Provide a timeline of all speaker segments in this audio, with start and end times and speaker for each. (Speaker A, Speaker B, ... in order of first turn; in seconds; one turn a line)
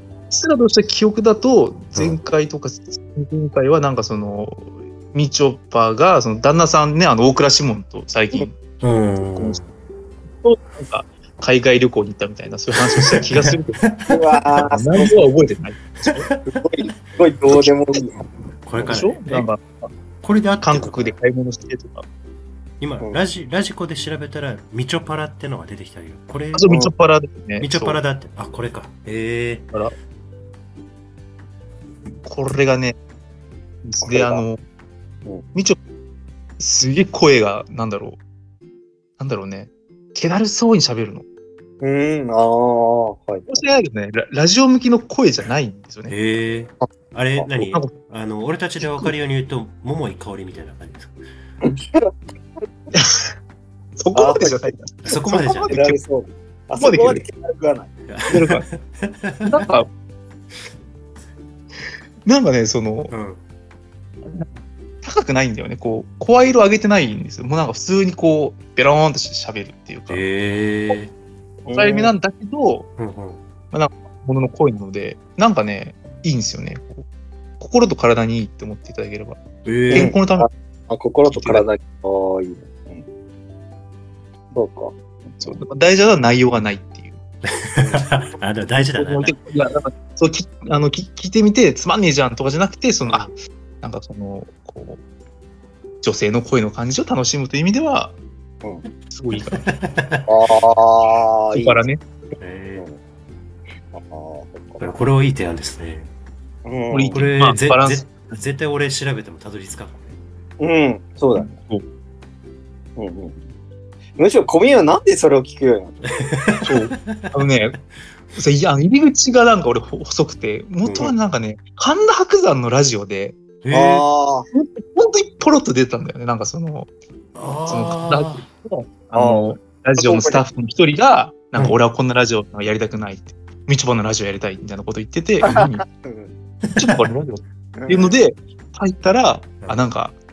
Speaker A: 0.3-8.6
Speaker B: 1.9-2.2
Speaker B: 8.8-9.7
Speaker A: 9.2-9.6
Speaker A: 10.4-13.8
Speaker B: 12.9-14.1
Speaker C: 14.1-15.2
Speaker A: 14.6-16.3
Speaker B: 16.0-16.4
Speaker C: 16.5-18.2
Speaker B: 18.6-19.5
Speaker A: 18.8-19.9
Speaker B: 20.2-21.2
Speaker A: 20.6-22.0
Speaker B: 22.8-26.8
Speaker A: 26.5-28.0
Speaker B: 27.6-29.7
Speaker A: 32.2-33.0
Speaker A: 33.8-34.6
Speaker C: 34.0-34.4
Speaker A: 36.6-38.2
Speaker A: 39.2-41.2
Speaker C: 41.8-43.5
Speaker A: 43.5-46.1
Speaker B: 46.1-51.1
Speaker A: 47.6-47.9
Speaker A: 48.8-49.1
Speaker C: 51.6-52.6
Speaker A: 52.9-53.3
Speaker A: 54.0-56.0
Speaker C: 54.1-54.7
Speaker B: 55.0-55.8
Speaker C: 55.7-57.9
Speaker A: 56.8-57.3
Speaker B: 58.1-59.6
Speaker A: 58.3-58.6
Speaker A: 59.5-59.9
Speaker A: 62.2-63.1
Speaker B: 63.1-63.4
Speaker A: 64.2-64.5
Speaker A: 65.0-70.2
Speaker B: 70.1-71.1
Speaker C: 71.6-72.1
Speaker A: 71.7-72.9
Speaker B: 73.0-73.4
Speaker A: 73.7-77.0
Speaker A: 77.6-80.5
Speaker B: 79.6-80.1
Speaker C: 79.9-83.0
Speaker A: 81.3-81.7
Speaker C: 84.5-84.9
Speaker A: 85.4-87.2
Speaker B: 87.4-89.4
Speaker A: 89.0-93.3
Speaker B: 93.0-93.3
Speaker A: 93.8-95.0
Speaker A: 96.0-98.1
Speaker A: 99.1-99.6
Speaker B: 99.5-100.3
Speaker C: 100.2-101.8
Speaker A: 101.5-102.0
Speaker B: 102.4-102.8
Speaker C: 103.9-104.9
Speaker B: 104.8-106.1
Speaker C: 106.6-107.2
Speaker A: 106.9-108.1
Speaker B: 107.1-110.2
Speaker C: 110.6-111.5
Speaker A: 111.3-111.8
Speaker C: 113.0-113.4
Speaker C: 114.2-116.2
Speaker B: 116.0-117.3
Speaker A: 116.6-117.8
Speaker A: 118.3-123.4
Speaker B: 120.8-121.1
Speaker B: 123.6-124.0
Speaker C: 123.7-124.5
Speaker A: 124.5-126.9
Speaker B: 127.3-128.4
Speaker A: 127.7-135.8
Speaker C: 129.1-130.4
Speaker C: 135.4-136.3
Speaker B: 136.7-137.0
Speaker A: 136.8-140.2
Speaker C: 137.7-138.2